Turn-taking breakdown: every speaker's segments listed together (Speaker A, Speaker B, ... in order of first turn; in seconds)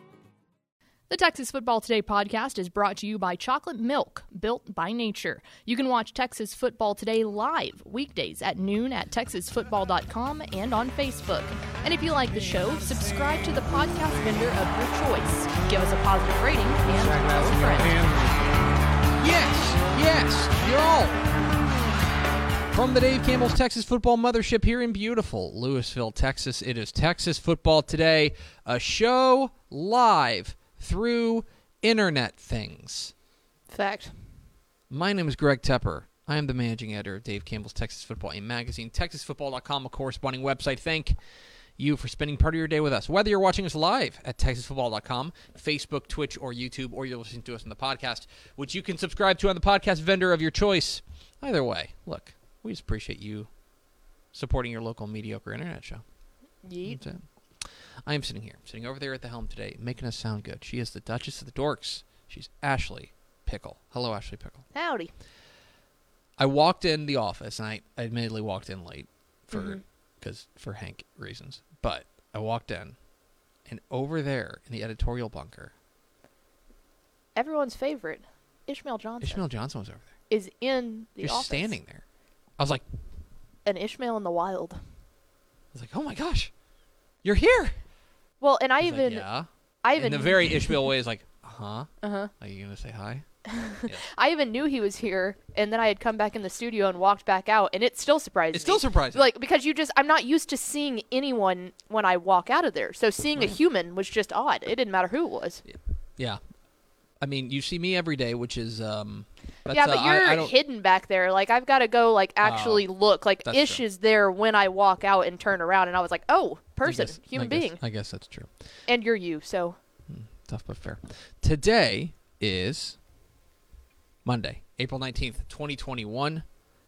Speaker A: 1.1-18.1, 33.7-34.3, 56.6-57.0, 64.7-65.1, 69.5-69.8, 77.4-79.5, 80.3-81.8, 83.7-85.0, 88.4-89.3, 89.8-90.8, 92.0-92.3, 93.5-105.6, 109.7-117.8, 118.9-119.8
Speaker B: 19.2-21.3, 22.7-33.1, 34.9-41.2, 41.8-53.5, 54.3-56.0, 56.9-64.7, 66.4-73.0, 73.7-75.7, 79.2-80.1, 81.2-82.0, 82.6-82.8, 85.7-86.5, 87.2-87.8, 88.8-94.1, 98.5-99.2, 105.7-106.4, 107.2-110.5, 112.4-112.9, 113.4-113.8, 116.8-118.5, 120.1-123.0, 124.2-126.4